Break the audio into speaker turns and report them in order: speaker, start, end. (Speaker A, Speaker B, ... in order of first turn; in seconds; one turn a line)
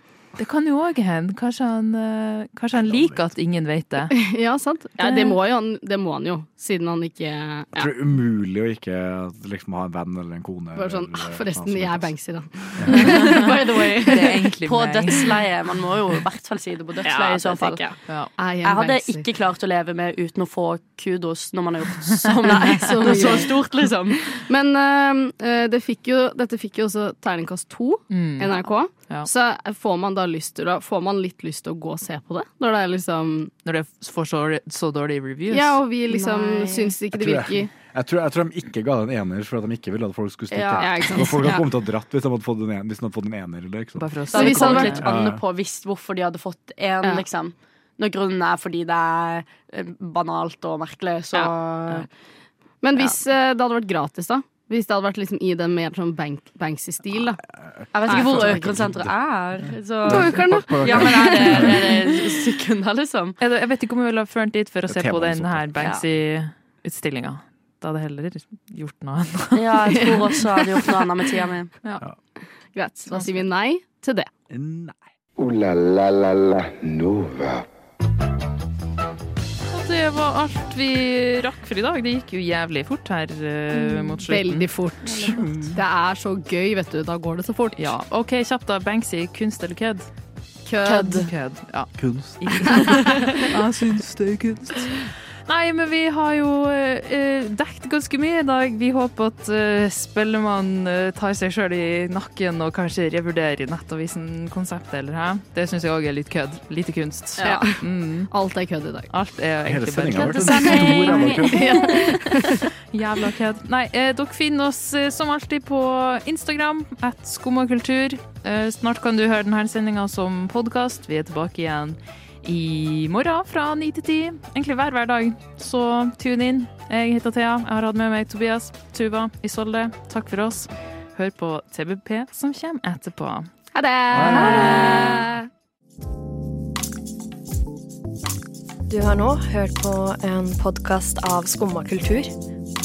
Speaker A: 0.4-4.2
Speaker B: 2.8-3.3
Speaker C: 4.1-7.9
Speaker A: 5.0-5.3
Speaker B: 7.7-12.1
Speaker C: 10.7-14.3
Speaker B: 12.8-13.2
Speaker A: 12.9-13.5
Speaker D: 13.0-17.8
Speaker A: 14.1-15.3
Speaker C: 17.0-19.3
Speaker D: 18.6-24.4
Speaker C: 22.4-33.5
Speaker A: 22.8-23.1
Speaker A: 28.1-28.5
Speaker A: 33.6-35.8
Speaker C: 35.5-37.7
Speaker D: 36.1-36.9
Speaker B: 37.1-44.1
Speaker D: 40.5-40.9
Speaker C: 40.7-41.6
Speaker A: 44.0-45.0
Speaker D: 44.3-52.1
Speaker C: 44.3-45.0
Speaker B: 44.8-45.4
Speaker C: 51.3-52.0
Speaker C: 52.8-57.4
Speaker B: 57.8-59.1
Speaker D: 57.9-63.4
Speaker C: 58.1-58.6
Speaker B: 59.7-61.9
Speaker C: 60.0-62.1
Speaker A: 63.4-70.1
Speaker B: 64.9-65.7
Speaker D: 65.8-66.0
Speaker D: 69.5-71.7
Speaker C: 70.0-71.0
Speaker C: 72.7-74.3
Speaker B: 74.5-75.0
Speaker E: 75.4-77.6
Speaker A: 79.7-84.7
Speaker C: 83.7-88.0
Speaker B: 85.1-85.8
Speaker A: 87.8-90.1
Speaker C: 90.7-91.3
Speaker A: 90.8-108.3
Speaker B: 92.0-93.0
Speaker C: 92.7-93.5
Speaker C: 107.4-109.1
Speaker A: 109.1-133.5
Speaker B: 109.7-112.0
Speaker C: 110.4-112.6
Speaker C: 133.7-135.5
Speaker B: 134.1-135.2
Speaker A: 134.4-135.0
Speaker F: 138.9-142.3